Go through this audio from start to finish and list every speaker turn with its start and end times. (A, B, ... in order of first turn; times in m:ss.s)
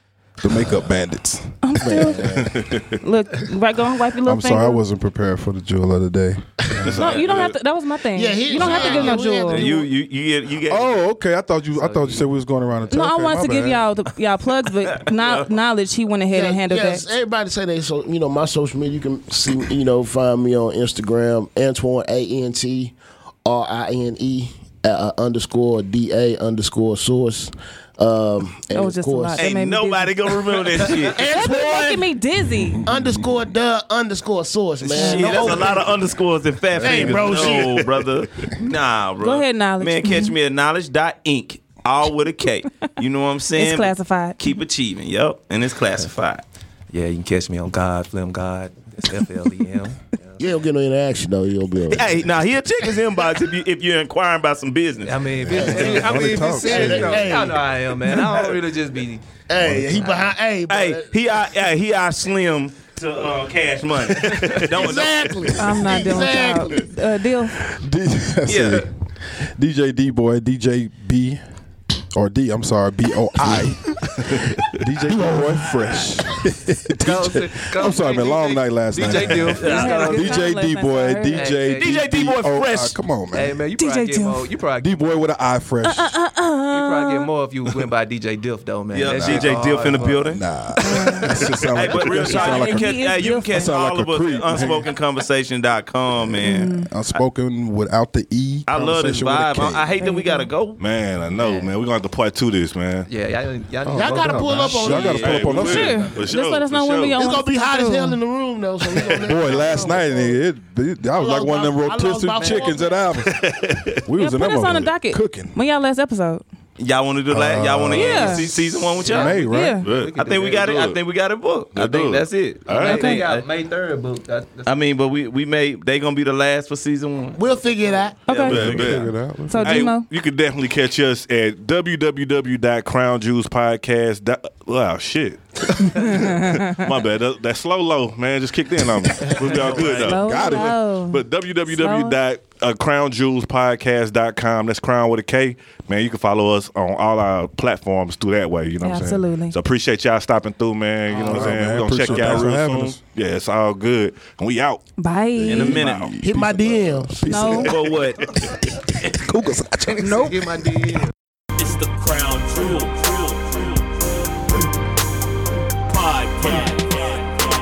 0:00.4-0:02.5 A
0:01.6-0:02.4 B
0:01.9-0:02.4 C
0:02.4-0:03.0 D
0:03.0-0:04.8 B
0:04.2-0:07.0 A
0:06.8-0:07.6 D
0:07.0-0:09.8 B
0:08.1-0:09.9 C
0:08.6-0:09.0 A
0:09.4-0:11.0 E
0:10.7-0:13.8 A
0:11.7-0:12.3 F
0:12.9-0:17.0 B
0:15.0-0:15.4 E
0:16.3-0:29.4 C
0:28.7-0:30.4 B
0:29.4-0:31.2 E
0:30.8-0:32.1 C
0:31.1-0:32.8 B
0:32.7-0:33.3 A
0:32.8-0:35.9 C
0:34.8-0:46.4 E
0:34.9-0:35.7 B
0:36.8-0:37.8 C
0:36.8-0:37.8 D
0:39.2-0:40.3 B
0:43.6-0:44.4 B
0:46.9-0:50.4 F
0:50.4-0:52.2 C
0:51.9-0:56.0 E
0:55.0-0:59.3 F
0:55.4-0:57.4 A
0:55.5-0:57.7 C
0:59.5-1:01.1 C
0:59.6-1:00.2 A
1:00.0-1:00.3 F
1:00.7-1:05.5 E
1:04.4-1:04.7 D
1:04.7-1:06.8 C
1:05.6-1:07.6 B
1:05.7-1:06.2 A
1:07.6-1:11.4 A
1:08.5-1:08.8 E
1:12.1-1:23.6 A
1:17.0-1:20.3 F
1:19.5-1:20.4 E
1:19.6-1:21.5 B
1:21.3-1:22.2 F
1:21.7-1:23.0 E
1:23.3-1:24.9 F
1:23.8-1:24.5 B
1:24.8-1:26.2 A
1:25.8-1:27.3 B
1:26.7-1:30.4 F
1:28.9-1:30.4 E
1:29.1-1:34.9 A
1:30.8-1:31.4 B
1:31.7-1:37.2 E
1:32.2-1:33.7 B
1:36.4-1:36.9 B
1:36.7-1:39.9 A
1:38.7-1:40.8 E
1:40.0-1:40.5 B
1:40.8-1:43.1 D
1:41.4-1:41.7 F
1:43.1-1:46.3 F
1:43.8-1:46.0 A
1:43.9-1:45.5 C
1:44.9-1:45.6 E
1:45.1-1:47.2 D
1:45.6-1:48.2 B
1:47.2-1:50.4 C
1:49.2-1:53.4 A
1:51.2-1:53.1 C
1:52.4-1:52.7 F
1:53.3-1:54.0 D
1:54.0-1:55.6 A
1:54.2-1:56.4 B
1:56.8-1:59.5 E
1:57.3-1:59.8 A
1:57.9-1:58.4 D
1:57.9-1:58.4 B
1:59.0-2:00.8 F
1:59.5-1:59.8 B
1:59.8-2:01.0 D
2:00.1-2:03.4 E
2:01.7-2:03.2 D
2:02.7-2:04.7 F
2:02.8-2:03.2 B
2:04.6-2:07.4 E
2:07.4-2:08.2 C
2:07.7-2:08.1 F
2:08.3-2:08.6 B
2:08.3-2:09.1 E
2:08.4-2:34.8 D
2:08.5-2:09.9 A
2:09.5-2:10.1 B
2:15.8-2:16.8 B
2:19.2-2:20.1 F
2:19.6-2:20.1 E
2:20.0-2:20.8 A
2:20.0-2:22.2 B
2:28.8-2:29.6 B
2:31.1-2:32.3 F
2:31.2-2:33.0 A
2:35.0-2:35.8 B
2:35.4-2:37.8 A
2:35.5-2:36.1 E
2:35.7-2:36.0 D
2:36.2-2:37.7 C
2:37.3-2:37.7 B
2:37.6-2:38.5 E
2:39.0-2:40.5 A
2:39.9-2:41.1 F
2:40.0-2:40.4 B
2:41.6-2:43.8 E
2:45.9-2:47.2 E